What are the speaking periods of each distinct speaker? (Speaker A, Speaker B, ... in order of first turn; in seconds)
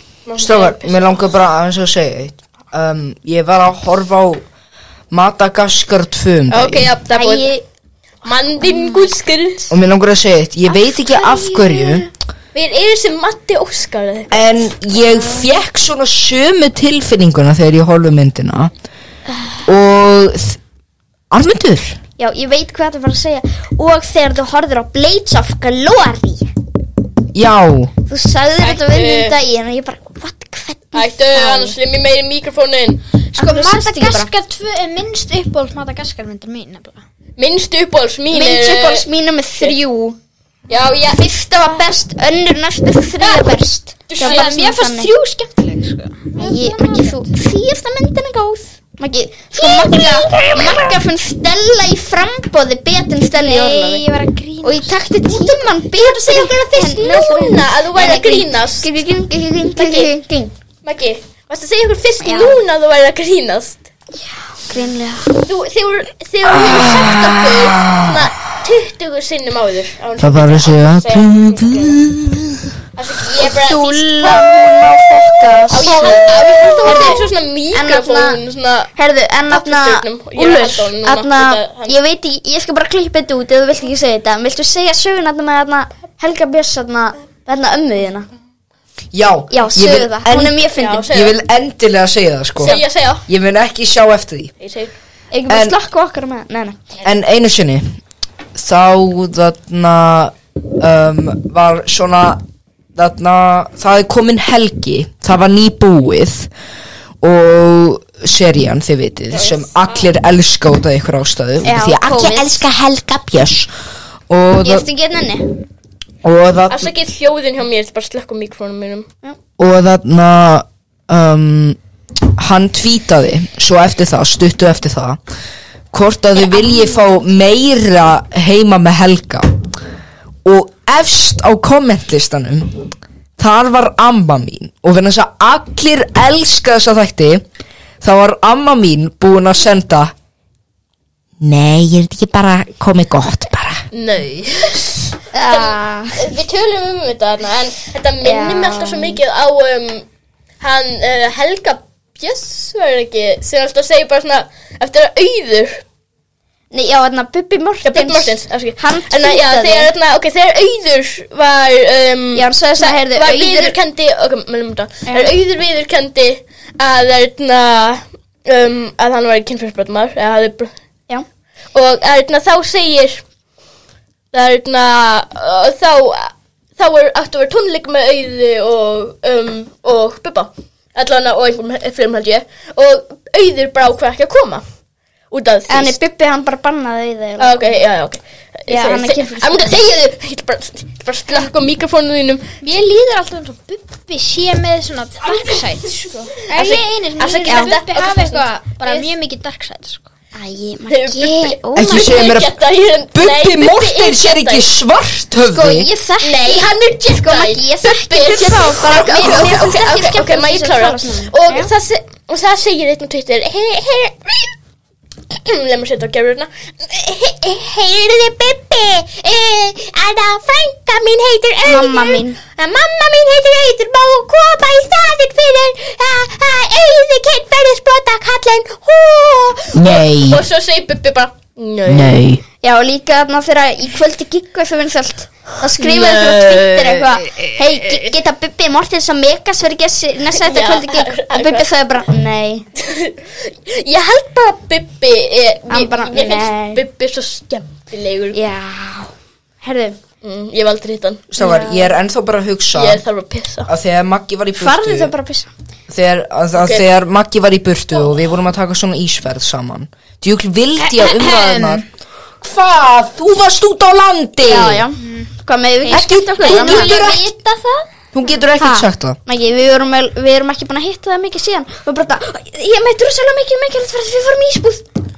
Speaker A: 0.2-1.2, 6.5-7.5, 8.2-9.7, 12.5-14.5, 28.6-29.4, 30.9-33.0, 37.4-39.0, 40.7-41.3, 43.2-43.5, 44.1-44.5, 56.0-58.9, 59.8-60.1, 60.8-63.8, 65.4-72.0, 73.0-74.5, 75.7-78.9, 79.5-82.0, 90.8-91.4, 92.6-93.2, 94.6-94.9, 109.3-110.0, 116.7-119.1, 143.9-150.1, 150.6-155.8, 157.8-170.7, 171.7-173.2, 174.3-184.6, 185.3-186.0, 187.4-192.5, 196.5-199.1, 200.9-204.7, 206.2-214.5, 215.3-232.2, 235.8-237.2, 240.4-241.7, 242.8-248.4, 250.2-251.2, 252.7-253.7, 256.6-256.8
Speaker B: 0.4-4.4, 5.1-6.9, 9.7-12.1, 14.3-18.7, 19.6-20.6, 21.3-22.0, 27.3-27.9, 66.5-68.2, 70.2-72.6, 89.1-94.5, 95.5-95.8, 97.0-97.8, 98.5-102.4, 102.9-106.5, 107.2-113.7, 114.3-114.8, 116.2-116.9, 119.6-121.8, 122.4-125.2, 125.9-129.5, 130.4-132.8, 133.4-137.4, 138.0-140.1, 141.4-143.8, 201.7-202.5, 203.1-205.9, 229.7-230.4, 231.8-232.4, 251.3-253.0, 253.7-255.1, 255.9-261.8, 262.4-264.8, 265.9-267.2, 268.1-269.2
Speaker C: 7.1-7.6, 8.6-9.1, 10.7-12.0, 15.0-15.4, 19.3-19.6, 22.2-26.5, 28.1-31.7, 33.4-34.3, 38.3-40.2, 41.1-45.1, 46.4-54.0, 54.6-60.5, 62.2-62.6, 64.6-65.4, 73.4-78.4, 79.0-88.3, 89.5-91.1, 95.3-96.8, 111.6-112.6, 114.6-115.5, 126.4-127.1, 145.3-146.2, 148.2-149.2, 156.7-159.9, 162.3-163.8, 165.1-165.3, 185.7-187.8, 188.7-189.8, 200.3-202.2, 205.5-211.7, 221.6-222.4, 232.6-242.6, 245.7-246.8, 248.3-250.0, 251.4-252.0, 254.6-255.5, 264.4-267.3, 268.6-274.9
Speaker D: 33.4-37.0, 44.2-47.3, 49.8-50.5, 53.3-56.9, 192.6-200.1, 260.8-261.8, 264.9-265.3, 265.8-267.9